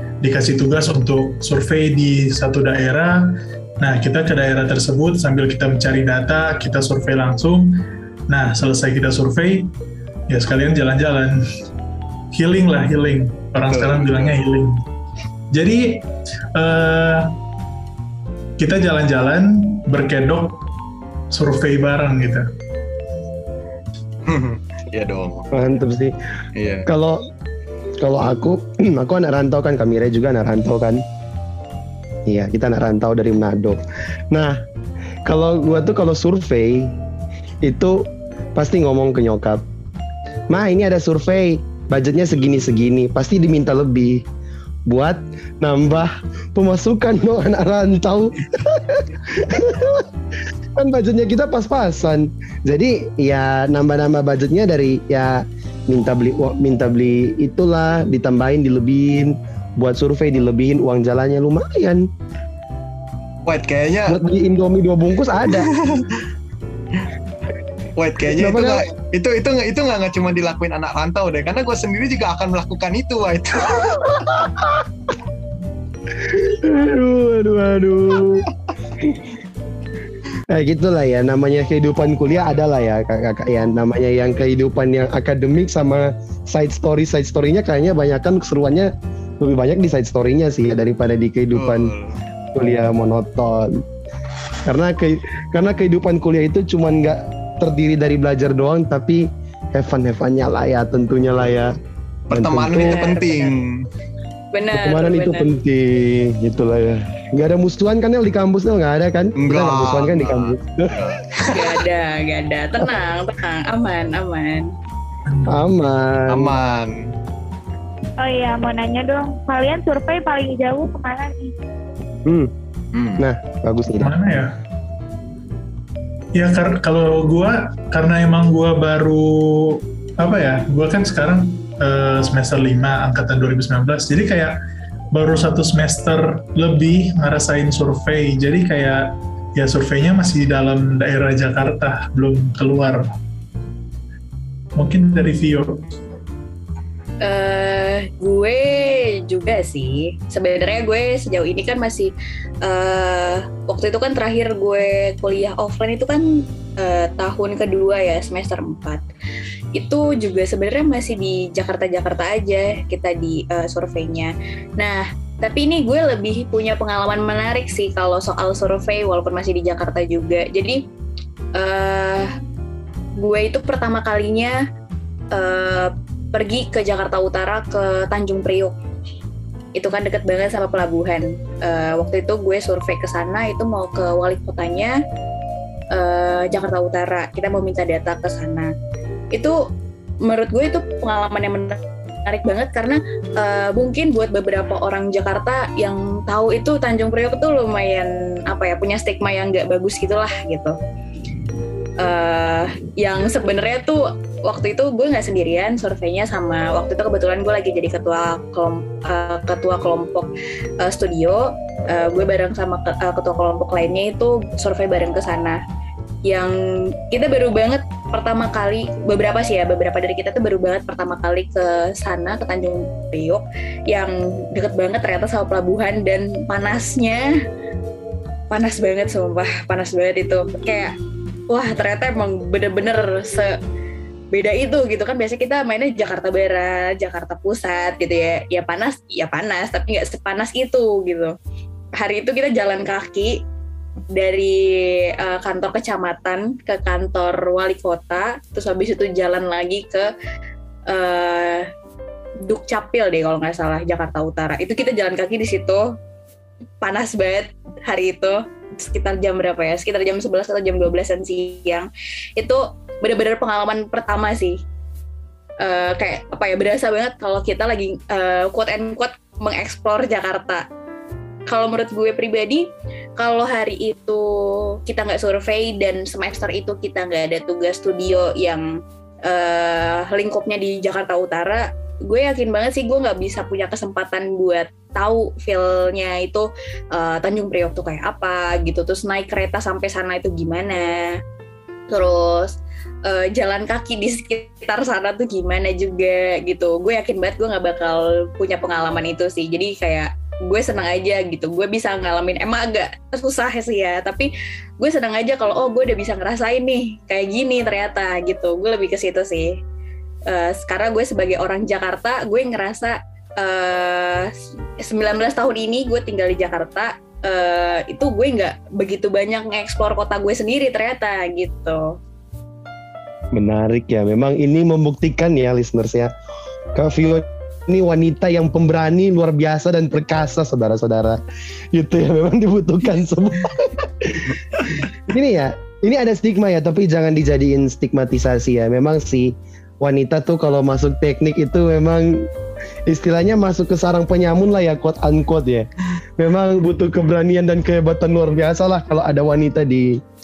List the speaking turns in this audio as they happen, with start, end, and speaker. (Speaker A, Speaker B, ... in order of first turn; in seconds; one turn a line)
Speaker A: 0.2-3.2
Speaker A: 3.8-7.7
Speaker A: 8.3-9.7
Speaker A: 10.3-11.4
Speaker A: 12.3-14.8
Speaker B: 13.7-14.3
Speaker A: 15.5-16.0
Speaker A: 16.5-17.3
Speaker A: 18.6-20.6
Speaker A: 21.3-22.4
Speaker B: 24.2-25.5
Speaker C: 25.5-26.1
Speaker B: 26.6-26.9
Speaker C: 26.9-27.2
Speaker C: 28.0-31.0
Speaker C: 32.3-33.8
Speaker C: 34.3-34.6
Speaker C: 35.2-36.9
Speaker C: 37.6-38.0
Speaker C: 38.5-39.6
Speaker C: 40.5-44.2
Speaker C: 44.9-50.1
Speaker C: 50.8-62.1
Speaker B: 63.5-64.2
Speaker C: 64.1-65.7
Speaker B: 65.5-66.2
Speaker B: 68.0-74.2
Speaker C: 68.3-68.8
Speaker C: 74.1-74.8
Speaker C: 76.2-78.5
Speaker C: 79.0-79.3
Speaker C: 80.5-91.9
Speaker B: 91.5-92.2
Speaker C: 92.5-93.8
Speaker C: 94.7-101.7
Speaker B: 102.3-103.9
Speaker C: 102.3-103.0
Speaker D: 102.8-103.6
Speaker D: 104.5-105.5
Speaker C: 104.7-111.2
Speaker B: 109.4-111.6
Speaker D: 111.4-114.7
Speaker A: 115.3-115.6
Speaker C: 115.5-116.5
Speaker B: 116.3-117.0
Speaker E: 118.2-121.5
Speaker C: 122.2-122.5
Speaker B: 122.9-123.2
Speaker C: 123.2-124.1
Speaker A: 124.0-124.5
Speaker A: 126.3-134.5
Speaker A: 135.1-139.0
Speaker A: 139.6-143.1
Speaker A: 144.8-145.7
Speaker D: 147.2-152.1
Speaker D: 152.6-159.0
Speaker D: 159.8-170.8
Speaker D: 171.6-172.3
Speaker D: 173.2-174.6
Speaker D: 175.3-178.7
Speaker D: 179.7-184.9
Speaker D: 185.9-188.7
Speaker D: 190.2-200.7
Speaker D: 202.0-210.3
Speaker D: 210.8-215.6
Speaker D: 216.3-216.6
Speaker D: 217.1-227.3
Speaker D: 228.5-230.9
Speaker D: 231.5-233.5
Speaker D: 234.3-241.3
Speaker D: 242.0-243.4
Speaker D: 244.1-250.1
Speaker D: 250.9-251.7
Speaker D: 252.5-255.8
Speaker D: 256.8-264.6
Speaker D: 265.6-270.6
Speaker D: 271.5-272.7
Speaker D: 273.2-274.3
Speaker D: 274.9-278.7
Speaker D: 279.2-291.1
Speaker D: 291.9-309.5
Speaker D: 310.3-321.9
Speaker C: 323.3-326.1
Speaker C: 326.7-331.2
Speaker C: 331.7-342.3
Speaker C: 342.9-350.0